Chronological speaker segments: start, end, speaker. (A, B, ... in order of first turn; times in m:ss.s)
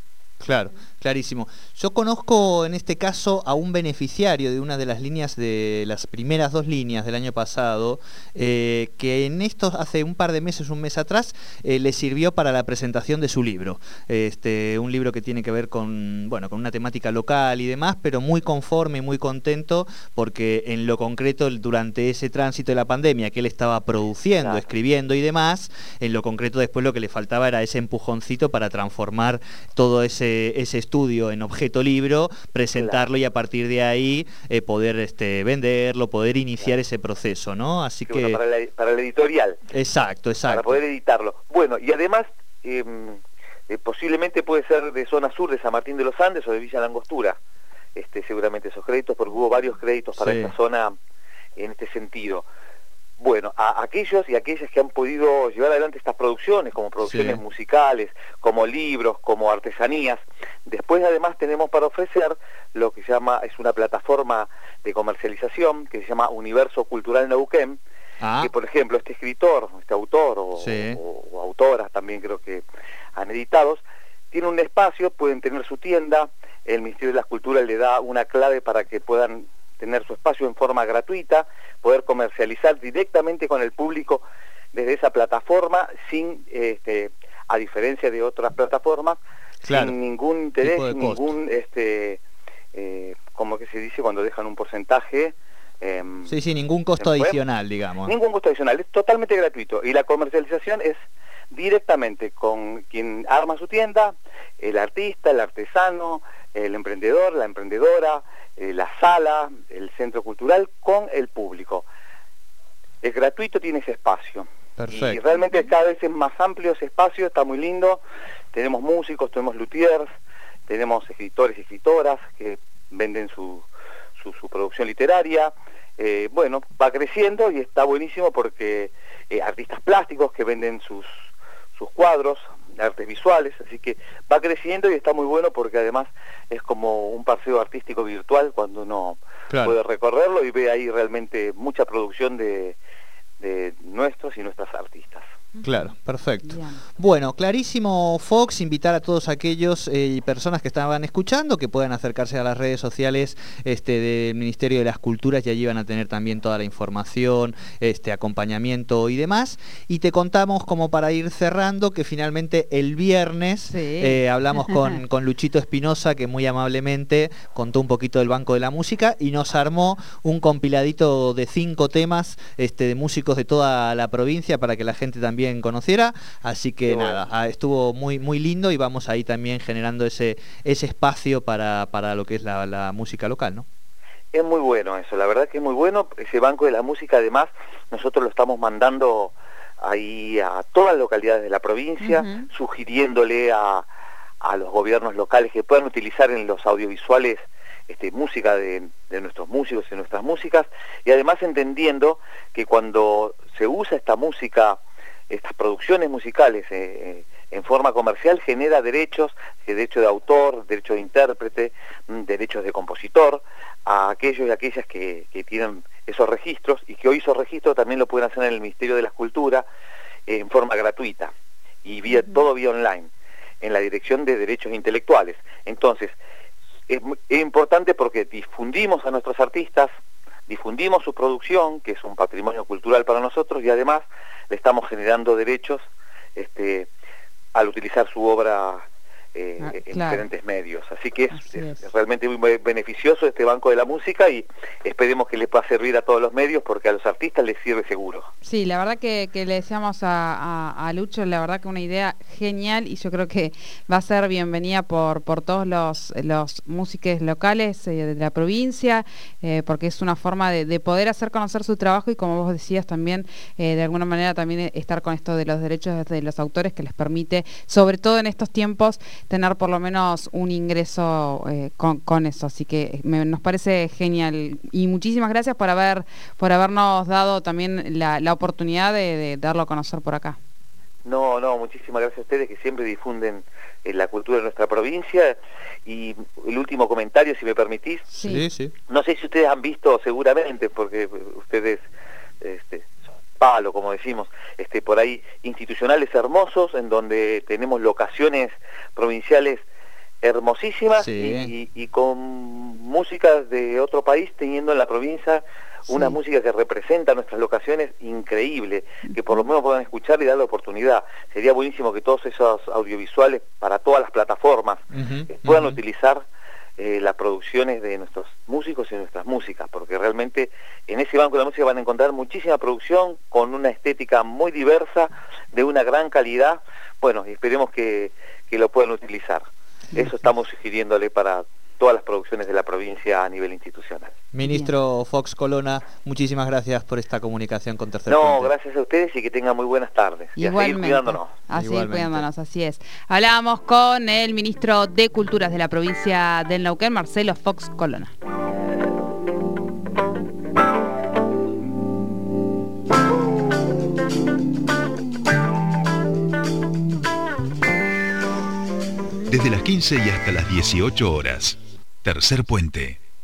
0:00.4-0:38.4 A
0:24.4-0:24.7 B
0:32.8-0:33.0 B
0:38.1-0:39.6 B
0:39.7-0:40.8 A
0:40.4-0:47.4 B
0:47.9-0:50.9 B
0:50.2-0:50.5 A
0:51.6-0:52.4 B
0:53.2-1:07.8 B
0:57.1-0:57.4 A
1:08.2-1:08.5 A
1:08.4-1:12.6 B
1:10.6-1:11.0 A
1:13.2-1:29.2 B
1:29.6-1:29.9 A
1:29.7-1:32.2 B
1:30.6-1:31.3 A
1:32.7-1:36.4 B
1:36.3-1:38.1 A
1:37.0-1:37.4 B
1:38.0-1:41.0 B
1:41.5-1:51.9 B
1:53.0-1:58.0 B
1:54.8-1:55.2 A
1:58.5-2:00.1 B
2:00.7-2:03.7 B
2:04.2-2:11.1 B
2:11.8-2:22.8 B
2:19.5-2:19.8 A
2:23.4-2:25.2 B
2:25.6-2:25.9 C
2:25.6-3:03.7 A
2:26.4-2:26.8 C
2:43.7-2:45.0 C
2:56.9-2:57.2 B
3:04.3-3:13.8 B
3:12.0-3:12.4 C
3:14.4-3:39.6 B
3:40.3-3:41.3 B
3:41.8-3:43.1 B
3:43.6-3:46.2 B
3:46.9-3:49.9 B
3:50.5-3:55.8 B
3:56.4-3:56.9 B
3:57.6-3:58.8 B
3:59.3-4:08.3 B
3:59.6-4:00.2 C
4:01.3-4:01.8 C
4:08.4-4:40.4 C
4:41.0-4:48.1 B
4:48.1-4:48.7 A
4:48.9-4:51.8 B
4:52.4-4:52.9 B
4:53.4-4:59.6 B
5:00.2-5:16.2 B
5:01.0-5:01.5 A
5:05.9-5:06.1 C
5:14.9-5:15.8 A
5:16.8-5:34.2 B
5:34.3-5:38.5 A
5:34.4-5:34.7 C
5:38.1-5:41.3 B
5:40.4-5:48.1 C
5:41.6-5:42.2 A
5:59.3-6:03.0 D